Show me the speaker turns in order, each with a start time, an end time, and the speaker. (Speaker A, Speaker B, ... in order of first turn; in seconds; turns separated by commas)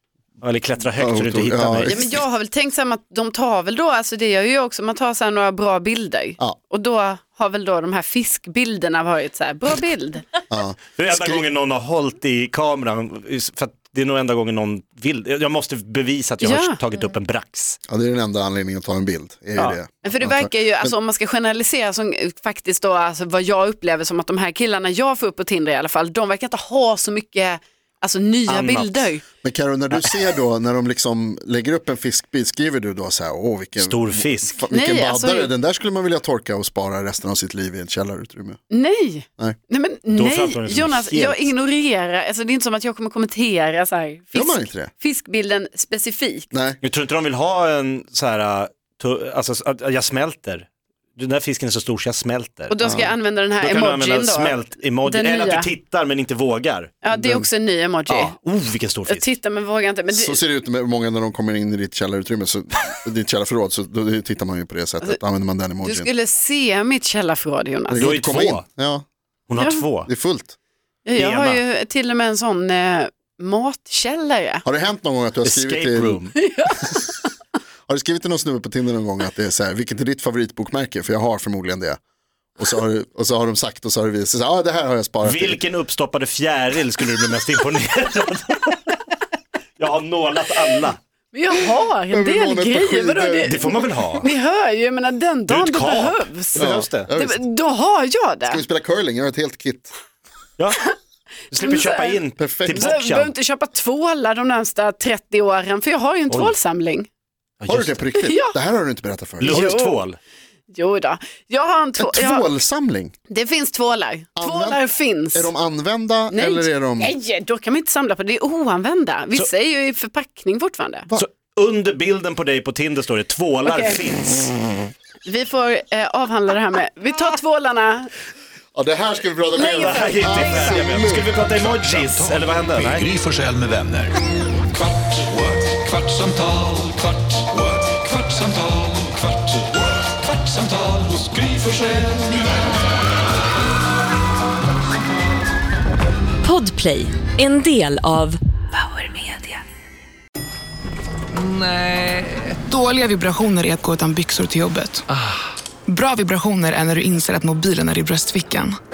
Speaker A: 0.4-2.1, Speaker B: 1.0-2.2, Speaker C: 1.9-10.3, Speaker B: 10.5-11.4, Speaker A: 10.9-17.8, Speaker C: 16.4-16.8, Speaker B: 17.9-21.0, Speaker C: 20.0-29.2, Speaker A: 28.5-29.1, Speaker B: 29.4-38.6, Speaker A: 33.8-34.7, Speaker C: 34.7-35.5, Speaker C: 38.7-46.5, Speaker A: 40.1-41.5, Speaker B: 44.3-44.9, Speaker B: 46.5-46.8, Speaker A: 46.8-52.8, Speaker C: 52.7-55.7, Speaker B: 52.8-53.1, Speaker A: 53.6-56.9, Speaker C: 57.0-58.4, Speaker B: 57.1-57.5, Speaker A: 58.1-59.3, Speaker C: 59.1-60.4, Speaker B: 60.1-66.1, Speaker C: 65.8-68.1, Speaker B: 67.9-69.0, Speaker A: 67.9-68.7, Speaker A: 69.5-70.1, Speaker C: 69.6-69.9, Speaker B: 70.1-70.5, Speaker C: 71.0-74.6, Speaker A: 71.2-71.6, Speaker B: 74.7-77.0, Speaker A: 75.5-76.3, Speaker C: 76.3-77.1, Speaker B: 77.9-82.0, Speaker B: 82.6-85.6, Speaker A: 85.2-89.1, Speaker A: 89.8-91.0, Speaker C: 91.3-98.6, Speaker B: 92.1-93.7, Speaker A: 93.5-94.3, Speaker A: 95.5-97.1, Speaker B: 96.6-97.5, Speaker B: 98.4-99.9, Speaker A: 100.6-100.9, Speaker A: 101.5-103.3, Speaker C: 101.6-107.1, Speaker B: 102.4-103.0, Speaker A: 106.3-106.5, Speaker A: 107.6-108.0, Speaker B: 107.7-109.8, Speaker C: 108.2-108.6, Speaker A: 109.4-110.2, Speaker C: 109.5-110.0, Speaker C: 110.7-112.5, Speaker B: 112.0-113.1, Speaker C: 113.3-115.5, Speaker B: 114.4-117.2, Speaker C: 116.3-121.1, Speaker A: 121.2-124.5, Speaker C: 123.7-124.0, Speaker C: 125.2-128.1, Speaker B: 128.7-131.4, Speaker C: 129.5-131.0, Speaker A: 129.6-133.1, Speaker D: 131.5-134.2, Speaker D: 135.4-137.1, Speaker D: 137.7-138.9, Speaker D: 140.6-142.2, Speaker E: 146.4-148.4, Speaker F: 152.6-155.1, Speaker F: 155.9-158.8